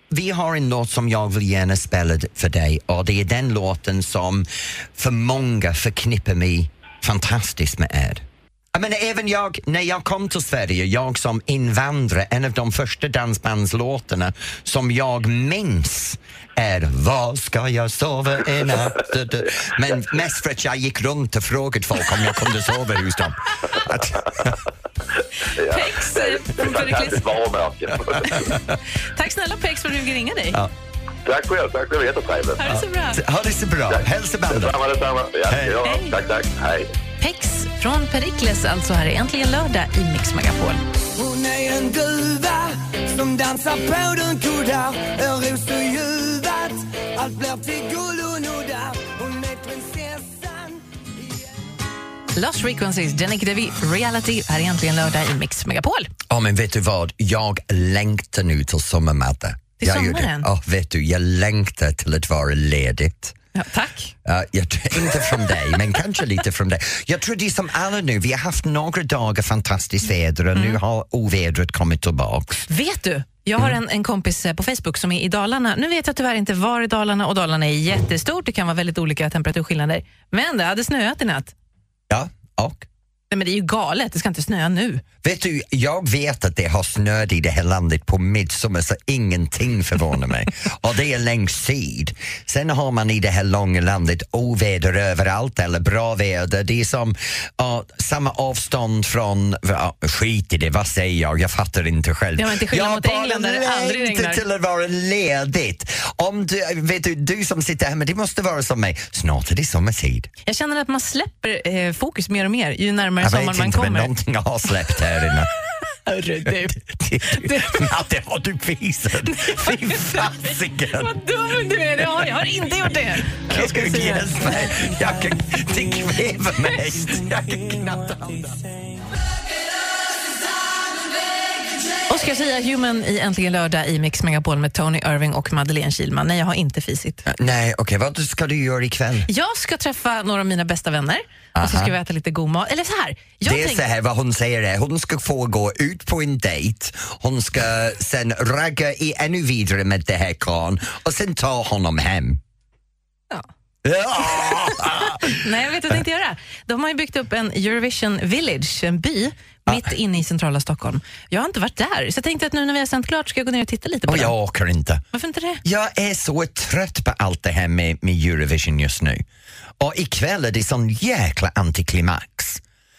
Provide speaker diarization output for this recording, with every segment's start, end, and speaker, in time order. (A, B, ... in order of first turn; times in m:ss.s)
0:00.1-0:24.6 A
0:25.6-0:28.4 B
0:25.7-0:27.2 C
0:28.2-0:30.6 C
0:31.2-0:32.6 B
0:32.6-0:33.2 C
0:32.6-0:34.8 A
0:33.9-0:36.9 B
0:35.5-0:35.8 A
0:35.8-0:36.1 C
0:37.2-0:40.8 C
0:41.1-0:51.4 D
0:52.3-0:56.1 C
0:56.3-1:03.3 A
0:59.8-1:00.5 C
1:03.5-1:04.1 C
1:04.2-1:12.6 A
1:12.7-1:21.5 C
1:22.1-1:22.8 A
1:23.3-1:25.0 C
1:25.2-1:50.3 A
1:42.4-1:44.4 C
1:50.4-1:54.1 C
1:53.2-1:55.5 A
1:56.0-1:57.8 C
1:56.4-2:01.2 A
1:59.3-2:04.5 C
2:03.5-2:08.6 A
2:12.1-2:17.2 C
2:17.2-2:19.3 A
2:19.3-2:23.8 C
2:21.5-2:22.0 A
2:23.4-2:32.4 A
2:33.8-2:35.4 A
2:35.0-2:44.3 C
2:44.1-2:45.0 A
2:45.1-2:45.6 C
2:45.6-2:49.2 A
2:49.8-2:52.6 A